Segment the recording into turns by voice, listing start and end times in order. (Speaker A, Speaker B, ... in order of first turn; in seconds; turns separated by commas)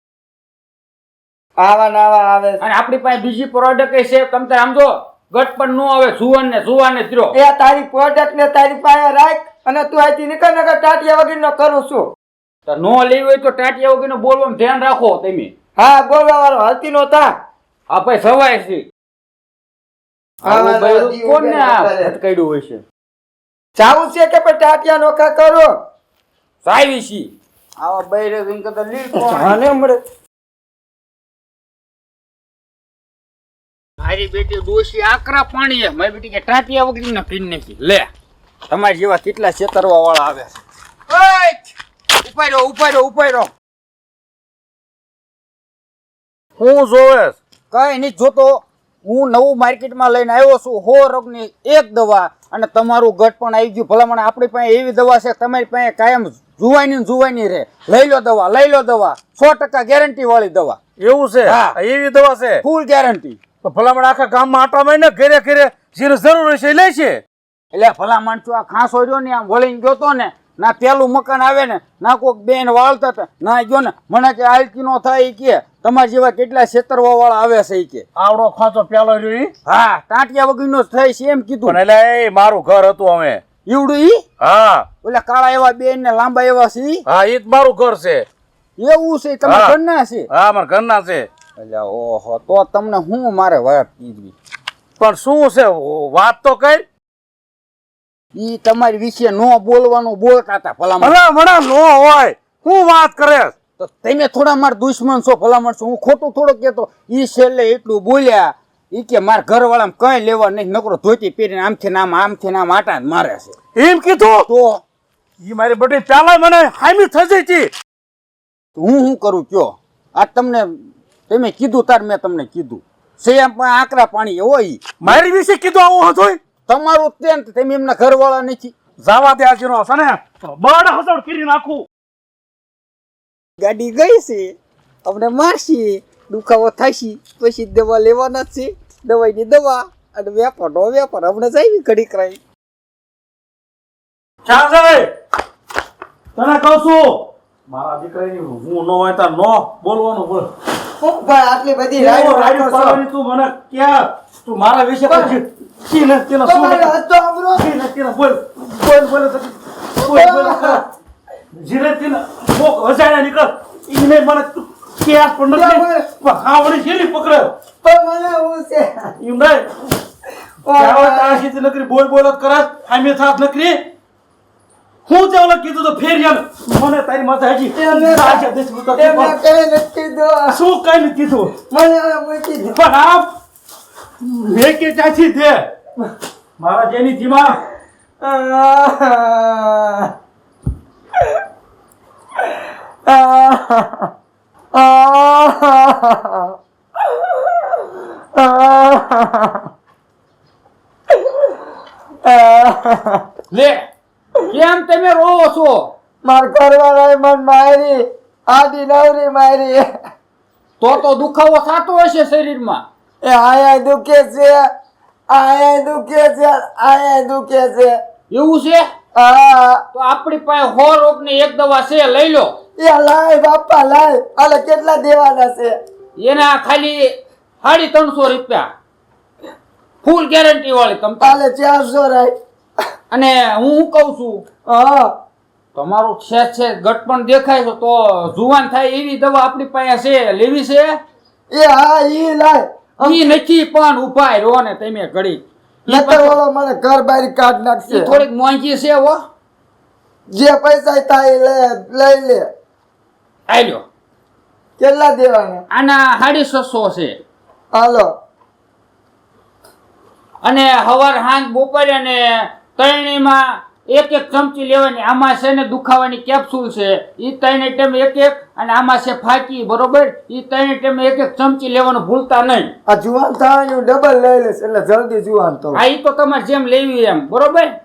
Speaker A: 1.6-2.6, Speaker B: 2.6-7.3, Speaker A: 7.3-12.1, Speaker B: 12.7-15.5, Speaker A: 15.8-17.3, Speaker B: 17.9-18.9, Speaker B: 20.4-22.8, Speaker A: 20.4-22.1, Speaker A: 23.8-25.7, Speaker B: 26.6-29.6, Speaker A: 29.1-30.0, Speaker B: 34.0-38.1, Speaker B: 38.7-40.6, Speaker B: 41.1-43.5, Speaker C: 46.6-47.4, Speaker B: 47.7-60.8, Speaker C: 61.0-62.6, Speaker B: 61.4-61.8, Speaker B: 62.6-63.4, Speaker C: 63.6-67.2, Speaker B: 67.7-78.0, Speaker C: 78.2-79.5, Speaker B: 79.7-81.8, Speaker C: 81.7-83.4, Speaker B: 83.7-84.2, Speaker C: 84.4-84.9, Speaker B: 85.0-87.0, Speaker C: 87.1-88.3, Speaker B: 88.8-90.3, Speaker C: 89.4-89.8, Speaker C: 90.3-91.3, Speaker B: 91.6-94.3, Speaker C: 95.0-96.8, Speaker B: 98.3-101.2, Speaker C: 101.0-103.5, Speaker B: 103.8-113.5, Speaker C: 113.8-114.5, Speaker B: 114.5-114.8, Speaker C: 115.4-117.7, Speaker B: 118.8-120.7, Speaker B: 121.3-125.2, Speaker C: 125.0-126.4, Speaker B: 126.7-128.7, Speaker C: 129.0-131.8, Speaker B: 133.6-142.4, Speaker C: 144.4-145.1, Speaker C: 146.4-150.5, Speaker A: 151.0-153.0, Speaker C: 152.0-156.9, Speaker A: 155.1-155.4, Speaker A: 156.4-157.7, Speaker C: 157.6-160.8, Speaker A: 160.0-160.8, Speaker C: 161.6-167.5, Speaker A: 165.5-166.1, Speaker A: 167.8-169.2, Speaker C: 169.2-169.7, Speaker A: 170.7-171.4, Speaker C: 170.7-173.8, Speaker C: 175.1-179.3, Speaker A: 177.7-180.6, Speaker C: 180.5-181.5, Speaker A: 181.7-182.8, Speaker C: 182.7-183.3, Speaker C: 184.2-185.6, Speaker C: 186.6-187.6, Speaker A: 188.2-190.1, Speaker A: 193.1-194.1, Speaker A: 194.7-196.5, Speaker A: 198.3-199.7, Speaker A: 202.2-203.2, Speaker B: 203.5-203.8, Speaker B: 204.5-205.9, Speaker A: 206.2-209.8, Speaker B: 210.8-212.8, Speaker A: 213.2-214.7, Speaker A: 215.3-218.0, Speaker B: 218.3-218.8, Speaker A: 219.2-219.8, Speaker B: 219.9-222.5, Speaker A: 222.8-225.7, Speaker B: 226.2-227.1, Speaker B: 227.6-228.7, Speaker B: 230.0-231.4, Speaker A: 231.2-232.3, Speaker B: 233.1-234.4, Speaker A: 234.7-235.1, Speaker B: 235.8-241.0, Speaker A: 241.5-243.2, Speaker B: 243.0-246.4, Speaker A: 245.9-248.2, Speaker B: 247.9-249.2, Speaker A: 250.3-252.5, Speaker B: 253.5-253.8, Speaker A: 254.8-255.6, Speaker B: 255.7-257.2, Speaker A: 257.7-258.1, Speaker B: 260.4-272.7, Speaker A: 272.9-275.8, Speaker B: 275.7-277.8